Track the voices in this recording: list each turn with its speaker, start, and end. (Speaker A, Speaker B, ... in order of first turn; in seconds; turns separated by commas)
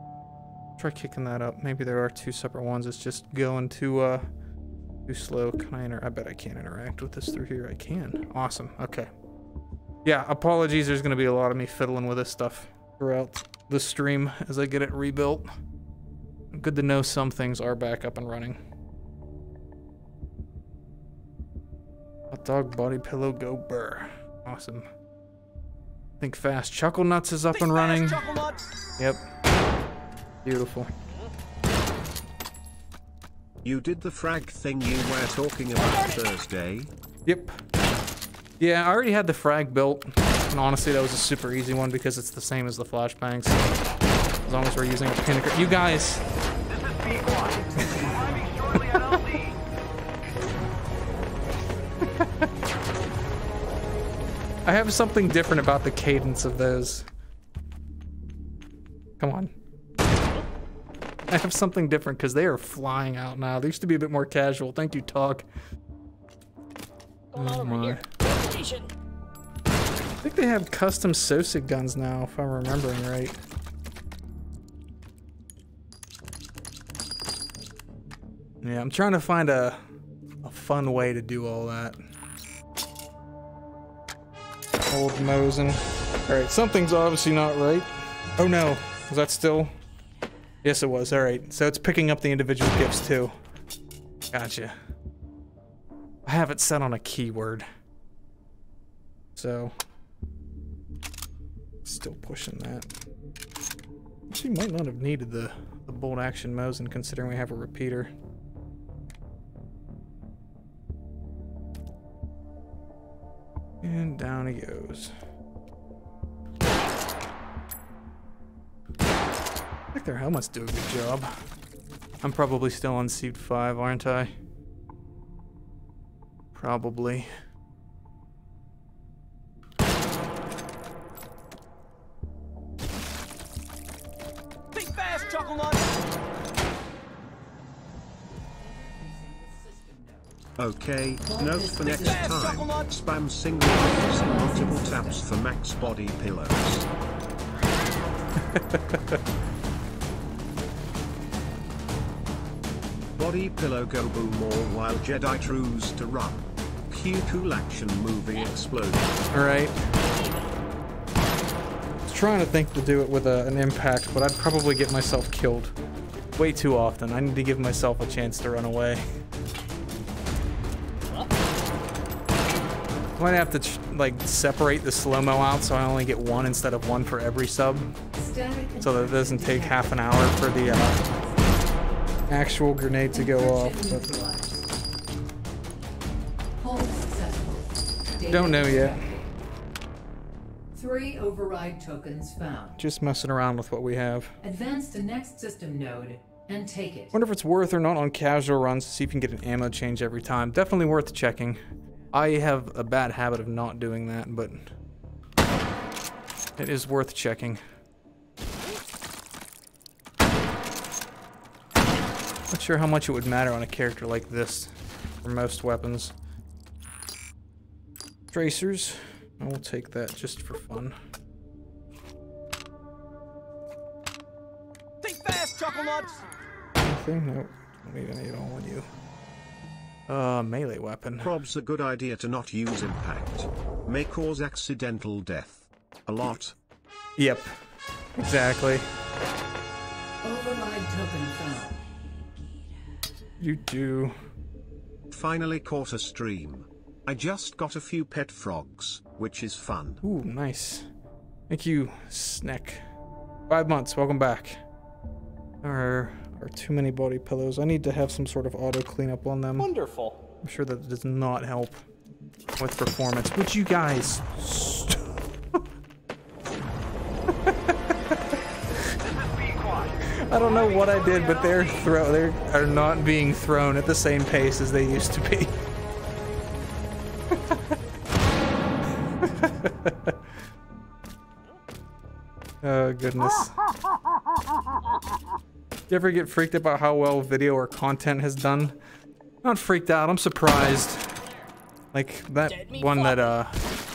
Speaker A: 0.8-4.3, Speaker A: 5.1-9.1, Speaker A: 10.1-15.5, Speaker A: 16.5-18.6, Speaker A: 22.3-24.9, Speaker A: 26.2-28.3, Speaker A: 29.0-29.2, Speaker A: 30.4-30.9, Speaker B: 33.6-36.9, Speaker A: 37.3-37.6, Speaker A: 38.6-43.7, Speaker A: 44.5-46.2, Speaker C: 46.8-49.1, Speaker A: 54.7-57.1, Speaker A: 59.2-59.5, Speaker A: 61.3-65.5, Speaker D: 67.3-68.9, Speaker A: 67.3-68.1, Speaker A: 70.2-73.4, Speaker A: 78.6-79.8, Speaker A: 80.4-82.0, Speaker A: 84.9-89.7, Speaker A: 90.6-93.4, Speaker A: 94.3-94.8, Speaker A: 96.3-97.7, Speaker A: 99.4-99.8, Speaker A: 101.8-102.9, Speaker A: 104.3-108.1, Speaker A: 113.8-115.1, Speaker A: 119.9-121.3, Speaker A: 122.2-124.3, Speaker A: 126.5-127.3, Speaker C: 135.3-136.1, Speaker C: 138.6-140.4, Speaker B: 140.6-146.8, Speaker C: 141.3-142.6, Speaker C: 143.7-145.3, Speaker A: 148.5-149.2, Speaker B: 153.2-159.3, Speaker A: 159.3-159.8, Speaker A: 162.1-165.8, Speaker A: 166.4-169.1, Speaker D: 171.1-171.4, Speaker A: 173.2-177.9, Speaker C: 178.2-181.6, Speaker A: 178.8-181.0, Speaker A: 182.3-184.1, Speaker C: 183.1-184.7, Speaker C: 186.6-189.3, Speaker A: 188.2-189.0, Speaker C: 190.7-192.8, Speaker A: 192.8-194.3, Speaker C: 194.4-197.2, Speaker A: 197.1-201.6, Speaker A: 202.1-204.7, Speaker A: 206.6-207.6, Speaker A: 212.5-214.7, Speaker A: 215.2-216.2, Speaker A: 218.3-221.0, Speaker A: 226.8-228.9, Speaker A: 230.1-231.3, Speaker B: 231.2-236.6, Speaker A: 237.2-237.5, Speaker A: 238.2-238.9, Speaker C: 240.2-241.8, Speaker A: 243.4-244.2, Speaker B: 245.1-250.0, Speaker A: 250.0-250.9, Speaker A: 251.5-252.8, Speaker A: 253.5-254.6, Speaker A: 255.6-259.7, Speaker D: 259.6-260.2, Speaker A: 260.3-261.8, Speaker A: 262.6-265.6, Speaker A: 267.4-267.9, Speaker A: 270.0-275.6, Speaker D: 270.6-271.7, Speaker A: 279.2-280.2, Speaker A: 282.6-283.6, Speaker A: 285.9-288.8, Speaker A: 289.4-291.1, Speaker D: 291.1-291.5, Speaker A: 291.9-293.6, Speaker D: 292.5-293.4